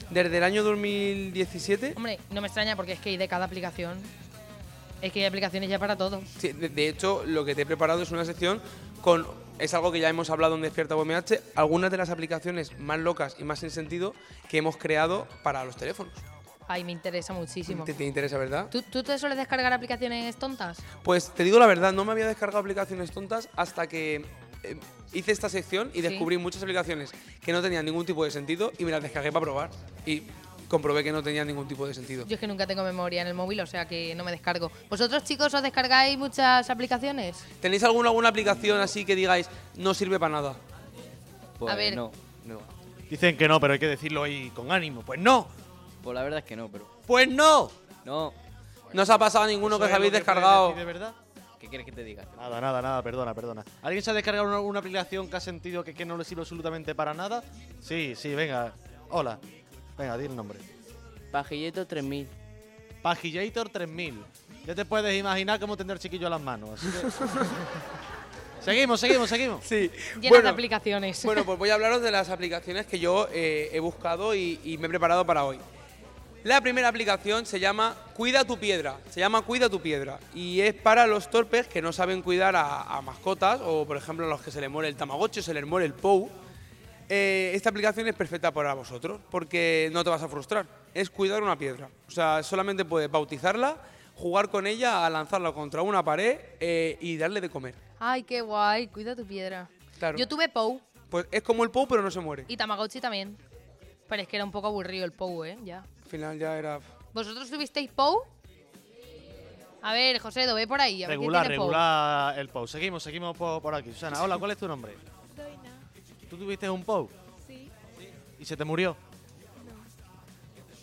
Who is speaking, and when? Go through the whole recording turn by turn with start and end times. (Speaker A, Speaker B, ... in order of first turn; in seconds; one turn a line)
Speaker A: 0.1-2.0
Speaker B: 2.0-4.1
Speaker B: 5.0-6.3
Speaker A: 6.4-16.2
Speaker B: 16.7-17.9
Speaker A: 17.7-18.7
Speaker B: 18.7-20.8
Speaker A: 21.0-32.3
Speaker B: 26.0-26.3
Speaker B: 32.2-37.4
Speaker A: 37.6-40.6
Speaker C: 41.6-42.7
Speaker B: 41.7-42.0
Speaker D: 43.1-45.5
Speaker C: 46.0-46.9
Speaker D: 47.1-47.7
Speaker C: 48.0-48.4
Speaker C: 48.9-49.3
Speaker A: 48.9-50.8
Speaker D: 49.6-51.2
Speaker C: 51.6-52.5
Speaker D: 52.4-59.4
Speaker D: 60.0-60.6
Speaker C: 61.3-62.3
Speaker D: 63.0-67.4
Speaker D: 68.6-69.6
Speaker A: 69.6-70.6
Speaker B: 70.2-71.5
Speaker A: 71.2-75.6
Speaker A: 76.4-86.3
Speaker A: 87.1-97.8
Speaker B: 98.0-100.8
Speaker A: 100.0-100.3
Speaker A: 101.1-102.5
Speaker B: 102.5-103.4
Speaker B: 104.1-105.9
Speaker A: 106.1-106.9
Speaker B: 107.1-108.3
Speaker B: 109.8-111.8
Speaker D: 111.0-115.0
Speaker D: 116.3-117.1
Speaker D: 118.4-119.0